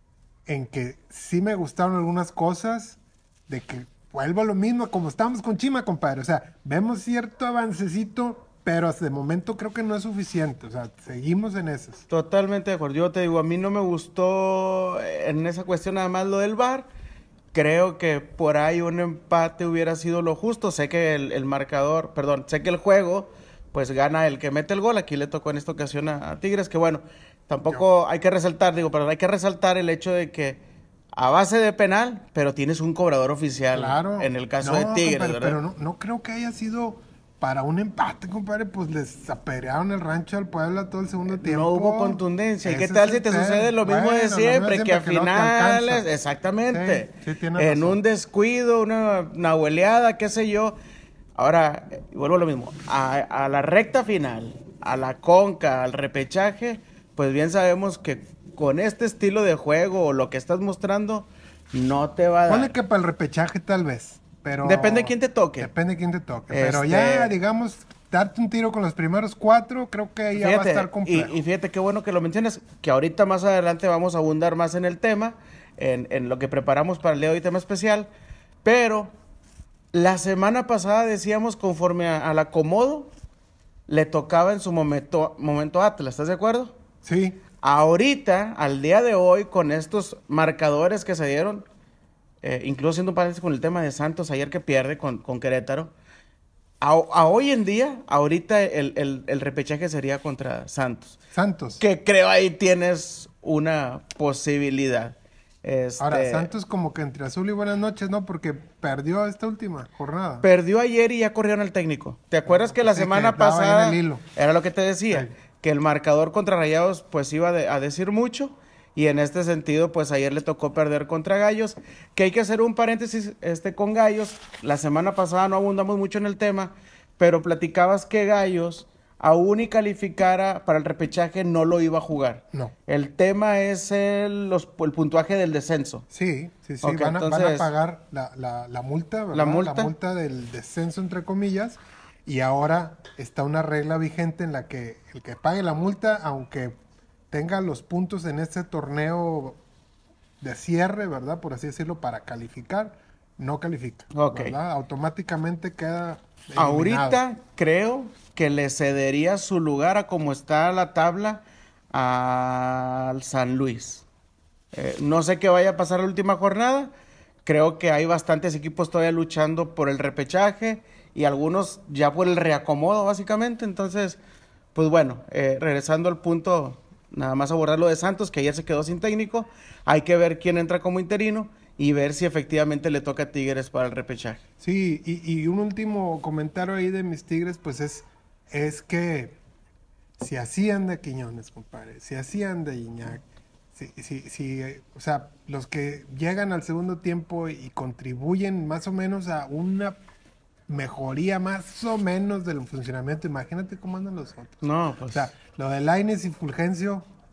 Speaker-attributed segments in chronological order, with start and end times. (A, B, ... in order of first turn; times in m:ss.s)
0:00.5-0:12.0 A
0:12.1-0:16.9 B
0:17.5-0:30.6 B
0:31.1-0:35.6 B
0:33.7-0:46.1 A
0:41.3-0:50.8 B
0:46.7-0:48.0 A
0:51.4-1:02.7 B
1:02.5-1:11.4 A
1:04.6-1:05.7 B
1:06.5-1:07.4 B
1:10.4-1:18.1 B
1:18.6-1:19.1 B
1:19.9-1:23.1 B
1:23.9-1:26.7 B
1:27.0-1:27.4 A
1:27.6-1:31.7 B
1:32.4-1:35.9 B
1:36.8-1:41.2 B
1:41.3-1:41.8 A
1:41.8-1:46.5 B
1:46.0-1:50.5 A
1:50.4-2:16.0 B
1:52.5-1:54.2 A
2:16.1-2:26.8 A
2:16.8-2:17.7 B
2:19.3-2:19.9 B
2:27.3-2:29.6 A
2:30.4-2:37.2 A
2:34.1-2:34.6 B
2:36.6-2:44.0 B
2:44.7-2:46.9 B
2:47.5-2:54.2 B
2:54.8-3:04.4 B
3:04.6-3:09.4 A
3:10.2-3:13.2 A
3:13.8-3:20.0 A
3:20.7-3:27.1 A
3:24.6-3:25.3 B